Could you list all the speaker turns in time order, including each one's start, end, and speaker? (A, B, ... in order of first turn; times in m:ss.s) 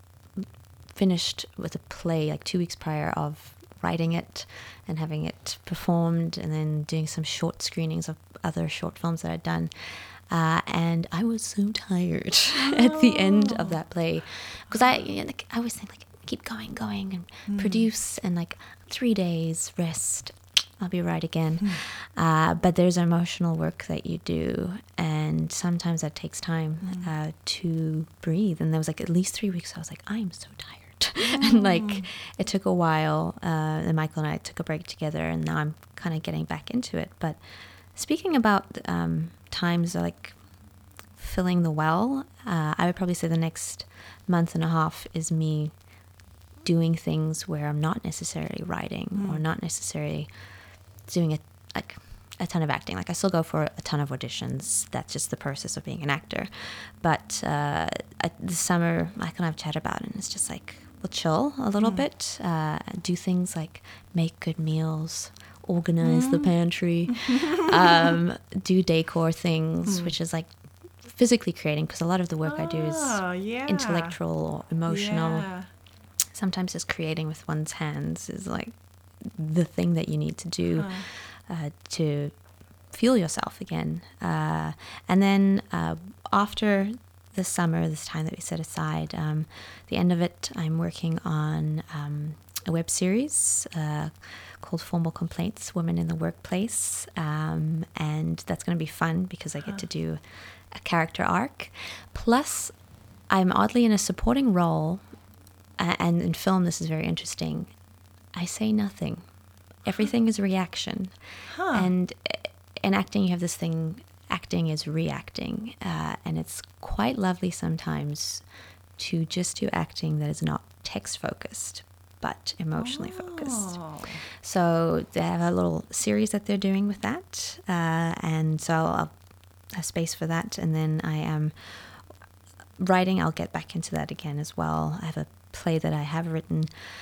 0:00.3-0:37.4 A
0:12.5-0:13.8 B
0:14.7-0:15.0 B
0:17.5-0:17.9 B
0:26.8-0:27.1 B
0:31.2-0:32.1 B
0:37.9-0:40.4 A
0:41.2-0:45.7 A
0:46.6-0:50.3 A
0:49.1-0:49.4 B
0:51.1-1:10.5 A
1:01.8-1:02.1 B
1:06.0-1:06.5 B
1:07.1-1:08.2 B
1:09.8-1:10.1 B
1:11.0-1:15.5 A
1:12.4-1:14.2 B
1:14.9-1:15.7 B
1:16.3-1:22.4 A
1:20.8-1:21.1 B
1:22.9-1:42.7 A
1:43.3-1:45.0 A
1:45.8-1:47.7 A
1:48.3-1:49.2 A
1:49.8-1:51.1 A
1:51.5-1:51.9 B
1:51.7-1:58.4 A
1:59.0-2:03.8 A
2:02.8-2:04.2 B
2:04.4-2:09.1 A
2:09.7-2:11.8 A
2:12.8-2:16.7 A